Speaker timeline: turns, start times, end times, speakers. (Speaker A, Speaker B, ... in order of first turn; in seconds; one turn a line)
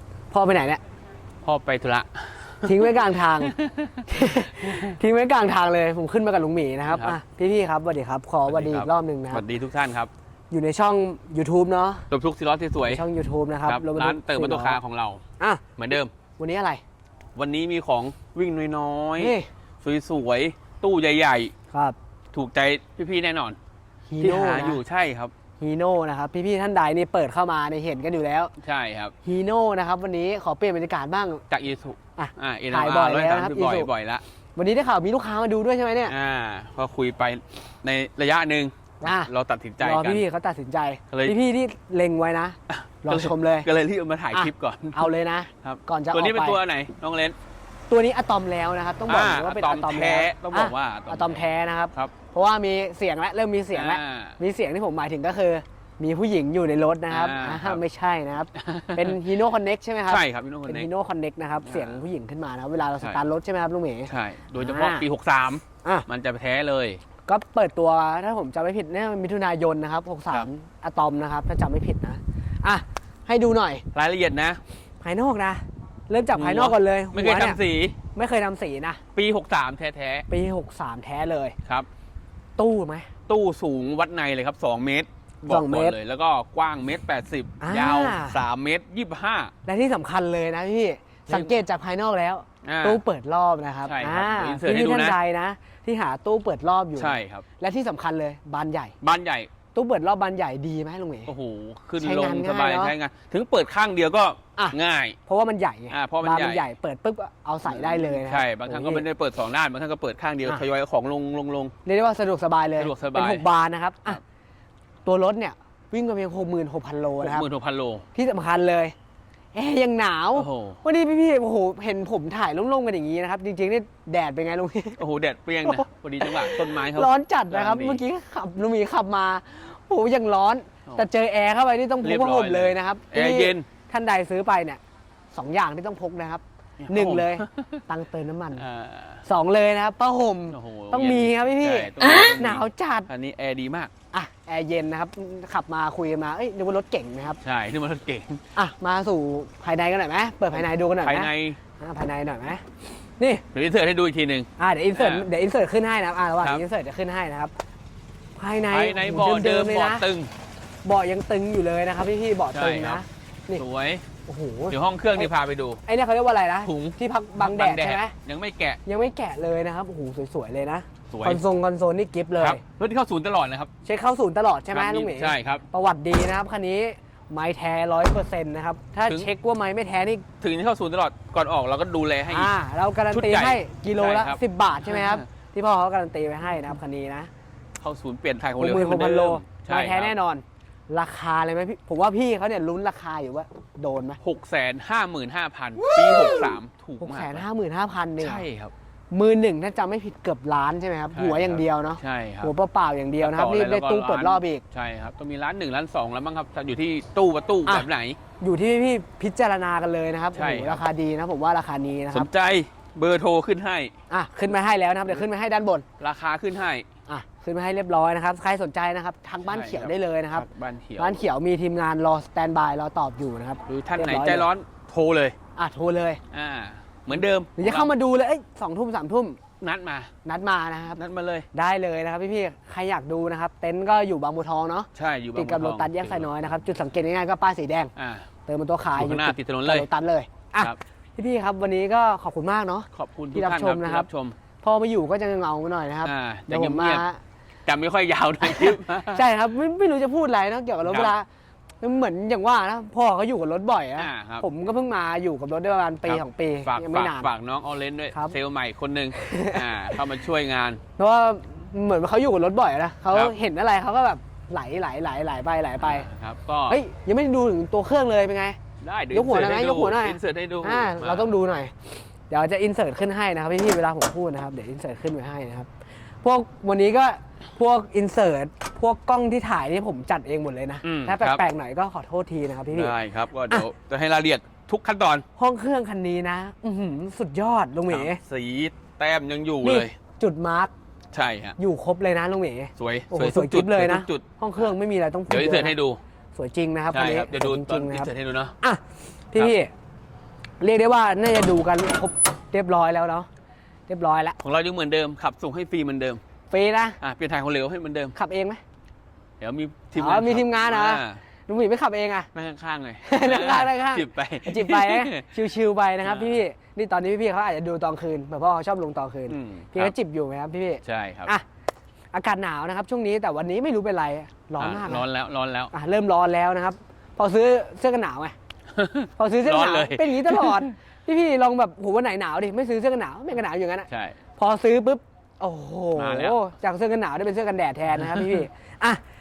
Speaker A: 0.3-0.8
Speaker B: 1.4-5.0
Speaker A: 2.6-3.5
Speaker A: 4.1-9.4
Speaker B: 6.9-7.2
Speaker B: 8.5-10.1
Speaker A: 10.5-12.1
Speaker B: 12.1-13.0
Speaker A: 12.8-14.8
Speaker B: 13.6-15.2
Speaker B: 15.8-16.1
Speaker A: 16.4-16.8
Speaker B: 17.4-21.5
Speaker A: 19.2-19.5
Speaker A: 21.7-22.0
Speaker B: 22.3-23.6
Speaker A: 24.1-24.8
Speaker B: 24.2-25.3
Speaker A: 25.6-28.5
Speaker B: 28.6-29.1
Speaker A: 29.2-31.4
Speaker B: 31.5-34.2
Speaker A: 32.2-33.9
Speaker A: 34.5-36.1
Speaker B: 36.0-40.2
Speaker A: 39.0-39.3
Speaker A: 39.8-43.7
Speaker B: 41.1-41.4
Speaker B: 42.7-45.1
Speaker A: 44.3-46.6
Speaker B: 45.6-47.4
Speaker A: 47.9-65.0
Speaker B: 49.1-52.1
Speaker B: 53.7-54.4
Speaker B: 57.1-57.8
Speaker B: 58.5-59.2
Speaker B: 60.1-60.9
Speaker B: 61.6-62.0
Speaker B: 64.1-67.0
Speaker A: 67.3-73.8
Speaker B: 73.9-74.6
Speaker A: 75.0-77.6
Speaker B: 76.3-78.0
Speaker A: 78.1-79.0
Speaker B: 79.1-80.2
Speaker A: 80.3-81.6
Speaker A: 82.6-83.1
Speaker B: 83.3-89.5
Speaker A: 85.5-86.0
Speaker A: 87.6-88.4
Speaker A: 89.7-98.9
Speaker B: 91.3-91.6
Speaker B: 92.6-93.0
Speaker B: 93.8-95.2
Speaker B: 97.0-97.5
Speaker B: 99.0-99.5
Speaker A: 99.8-101.3
Speaker B: 101.2-105.2
Speaker A: 102.0-102.9
Speaker A: 104.6-109.0
Speaker B: 105.9-106.7
Speaker B: 107.7-111.7
Speaker A: 111.8-114.2
Speaker B: 112.8-113.5
Speaker A: 115.0-117.5
Speaker B: 117.2-118.0
Speaker A: 118.1-118.9
Speaker A: 119.5-125.0
Speaker B: 120.3-120.8
Speaker B: 125.0-128.0
Speaker A: 125.7-134.8
Speaker B: 132.0-133.7
Speaker A: 135.3-138.6
Speaker B: 136.8-137.8
Speaker B: 138.5-139.2
Speaker A: 139.2-143.1
Speaker B: 140.5-143.9
Speaker A: 144.1-147.4
Speaker B: 147.4-148.4
Speaker A: 148.5-153.4
Speaker B: 151.0-151.6
Speaker B: 153.5-155.3
Speaker A: 154.6-157.5
Speaker A: 158.4-160.0
Speaker B: 158.7-160.3
Speaker A: 160.8-163.6
Speaker B: 162.5-164.0
Speaker A: 164.2-165.3
Speaker B: 164.7-165.8
Speaker A: 165.8-168.2
Speaker B: 166.6-168.8
Speaker A: 168.8-172.6
Speaker B: 171.1-171.4
Speaker B: 172.4-173.7
Speaker A: 173.8-180.2
Speaker B: 174.7-175.7
Speaker B: 180.4-182.5
Speaker A: 182.3-187.3
Speaker B: 183.1-185.2
Speaker B: 187.8-190.1
Speaker A: 188.6-194.2
Speaker B: 194.2-197.4
Speaker A: 195.9-198.4
Speaker B: 198.2-198.7
Speaker A: 199.1-204.6
Speaker B: 201.1-202.5
Speaker B: 203.2-208.2
Speaker A: 208.4-212.3
Speaker B: 210.3-210.8
Speaker B: 212.1-213.9
Speaker A: 214.1-215.8
Speaker B: 216.0-216.8
Speaker A: 217.1-220.5
Speaker B: 219.4-221.2
Speaker A: 221.0-224.5
Speaker B: 223.7-225.3
Speaker A: 225.6-226.2
Speaker B: 226.3-227.9
Speaker A: 227.2-229.4
Speaker B: 229.6-230.1
Speaker A: 230.2-231.0
Speaker B: 230.9-231.5
Speaker A: 231.5-237.9
Speaker B: 234.9-236.3
Speaker B: 238.0-238.3
Speaker A: 238.5-244.1
Speaker B: 238.9-239.9
Speaker B: 242.9-244.4
Speaker A: 244.6-247.2
Speaker B: 246.0-247.0
Speaker B: 247.7-249.2
Speaker A: 248.4-251.3
Speaker B: 250.8-251.1
Speaker A: 251.8-257.3
Speaker B: 254.0-254.5
Speaker B: 256.1-260.8
Speaker A: 259.1-260.0
Speaker A: 261.0-266.1
Speaker B: 265.8-266.8
Speaker A: 266.7-268.6
Speaker B: 268.8-271.3
Speaker A: 269.1-275.7
Speaker A: 276.2-282.9
Speaker B: 280.8-281.4
Speaker B: 282.7-285.2
Speaker A: 285.4-288.2
Speaker B: 287.9-289.9
Speaker A: 289.6-290.7
Speaker B: 291.1-291.6
Speaker A: 291.6-295.8
Speaker B: 292.8-294.2
Speaker B: 295.3-296.0
Speaker A: 296.3-299.7
Speaker B: 296.9-298.5
Speaker A: 300.6-303.3
Speaker A: 303.9-304.4
Speaker B: 304.4-306.2
Speaker A: 306.5-307.0
Speaker B: 307.0-308.1
Speaker A: 308.1-308.6
Speaker B: 309.4-311.2
Speaker A: 309.9-312.3
Speaker B: 312.3-315.4
Speaker A: 313.0-321.4
Speaker B: 316.0-316.4
Speaker B: 319.3-319.9
Speaker B: 320.8-321.3
Speaker A: 322.1-325.1
Speaker B: 324.6-325.7
Speaker A: 325.7-328.3
Speaker B: 328.7-330.7
Speaker A: 329.2-339.0
Speaker B: 333.9-334.1
Speaker B: 335.9-336.4
Speaker B: 338.0-338.4